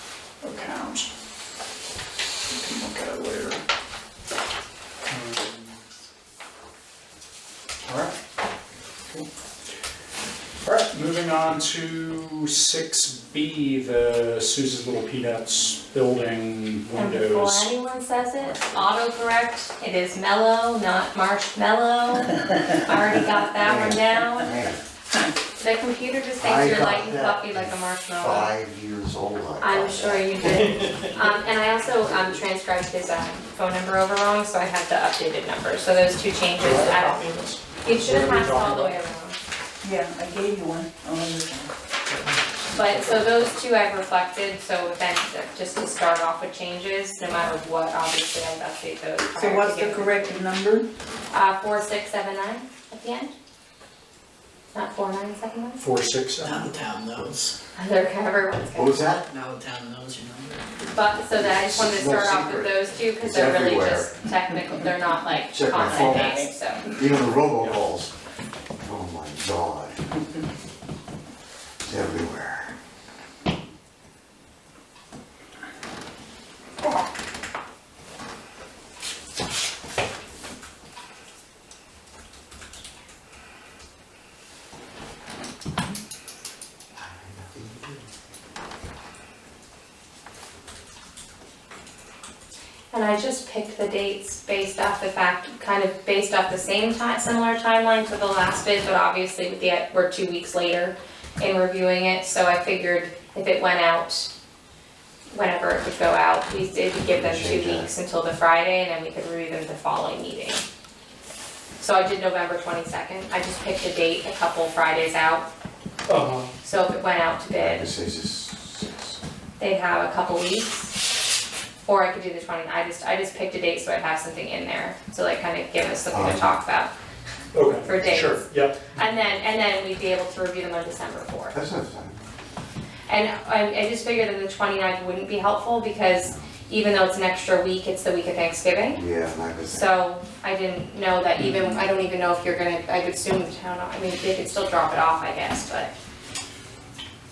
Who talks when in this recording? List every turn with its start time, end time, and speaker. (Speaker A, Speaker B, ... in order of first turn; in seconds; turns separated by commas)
Speaker A: 0.4-1.1, Speaker A: 2.5-3.6, Speaker A: 5.1-5.8, Speaker A: 7.8-8.1, Speaker A: 10.6-17.7, Speaker B: 16.9-24.5, Speaker A: 18.4-18.9, Speaker C: 23.5-24.8, Speaker B: 25.6-28.5, Speaker C: 26.4-31.3, Speaker B: 29.6-37.3, Speaker A: 36.6-39.0, Speaker B: 37.8-39.4, Speaker D: 39.8-41.7, Speaker A: 42.1-43.5, Speaker B: 42.7-50.4, Speaker D: 49.3-50.9, Speaker B: 51.3-53.3, Speaker B: 54.7-55.8, Speaker A: 55.8-56.7, Speaker E: 56.4-57.6, Speaker B: 57.8-59.0, Speaker C: 58.7-59.2, Speaker E: 59.2-60.9, Speaker B: 60.9-66.8, Speaker C: 61.1-64.2, Speaker C: 65.5-68.1, Speaker E: 65.8-66.5, Speaker C: 68.8-70.0, Speaker C: 71.8-72.7, Speaker C: 86.9-88.0, Speaker B: 92.9-104.3, Speaker B: 105.3-110.6, Speaker C: 107.1-107.9, Speaker B: 111.8-115.5, Speaker A: 116.1-116.5, Speaker B: 116.6-117.9, Speaker C: 117.5-119.0, Speaker B: 119.6-120.9, Speaker B: 121.8-126.9, Speaker C: 126.1-126.5, Speaker A: 127.5-129.2, Speaker B: 127.8-131.6, Speaker C: 131.5-132.2, Speaker B: 133.1-139.0, Speaker C: 138.9-139.9, Speaker B: 139.7-145.9